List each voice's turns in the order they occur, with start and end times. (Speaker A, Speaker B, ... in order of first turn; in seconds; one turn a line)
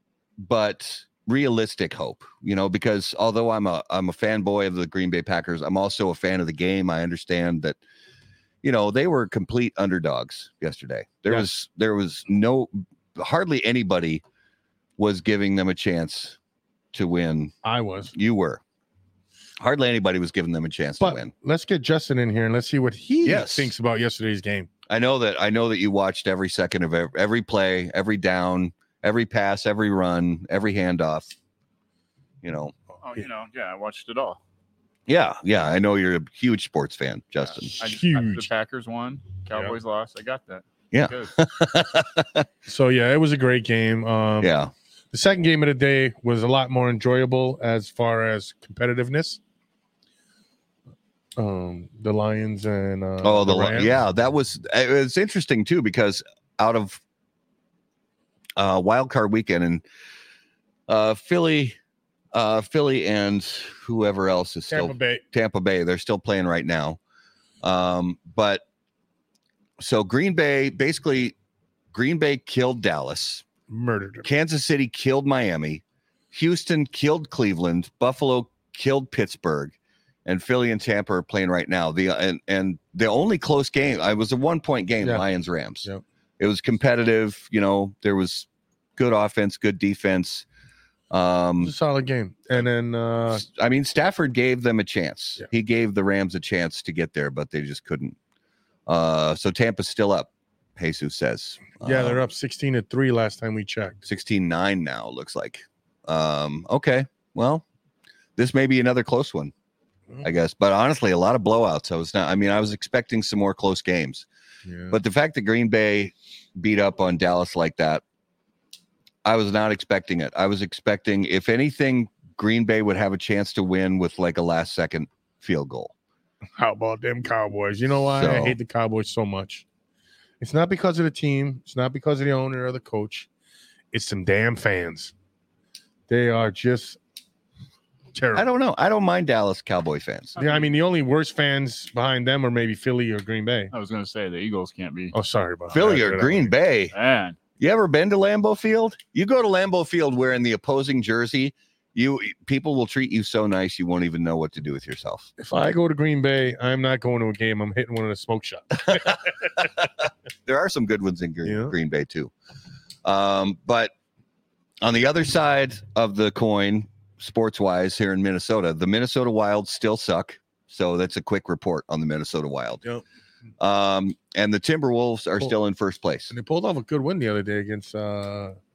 Speaker A: 0.4-7.8
Speaker A: 8.6-14.2
Speaker A: 15.0-16.4
Speaker A: 16.9-17.5
Speaker B: 17.6-18.1
Speaker A: 18.1-18.6
Speaker A: 19.6-21.3
Speaker B: 21.0-24.7
Speaker A: 23.2-23.7
Speaker A: 24.9-31.3
Speaker A: 32.4-32.7
Speaker C: 33.0-34.4
Speaker A: 35.1-37.7
Speaker C: 37.6-41.3
Speaker B: 37.8-38.5
Speaker A: 40.9-42.5
Speaker B: 42.6-44.5
Speaker A: 44.4-44.7
Speaker B: 45.1-49.4
Speaker B: 51.4-53.9
Speaker A: 53.2-57.0
Speaker A: 58.6-59.8
Speaker A: 60.9-61.8
Speaker A: 62.3-67.0
Speaker B: 64.7-65.2
Speaker A: 67.6-68.6
Speaker A: 69.8-71.3
Speaker A: 71.9-73.4
Speaker B: 73.7-74.3
Speaker A: 74.2-85.9
Speaker A: 86.4-90.5
Speaker A: 91.1-91.7
Speaker B: 91.6-93.4
Speaker A: 93.3-98.2
Speaker A: 98.9-102.2
Speaker B: 101.8-104.0
Speaker A: 104.0-107.6
Speaker A: 108.4-109.5
Speaker A: 110.2-114.3
Speaker B: 114.7-115.0
Speaker A: 114.9-118.0
Speaker A: 119.2-125.9
Speaker B: 126.6-129.6
Speaker A: 128.0-128.6
Speaker B: 130.4-133.3
Speaker B: 133.9-135.1
Speaker B: 136.1-137.0
Speaker B: 138.1-138.5
Speaker A: 138.3-140.3
Speaker C: 140.4-140.7
Speaker B: 140.4-143.7
Speaker C: 143.7-145.2
Speaker B: 145.1-146.5
Speaker A: 145.7-146.9
Speaker C: 146.9-147.4
Speaker A: 147.6-155.3
Speaker B: 155.4-159.4
Speaker A: 158.8-159.9
Speaker A: 160.4-162.3
Speaker B: 161.4-161.7
Speaker A: 163.0-163.9
Speaker A: 164.8-172.8
Speaker A: 173.6-176.3
Speaker B: 176.3-178.6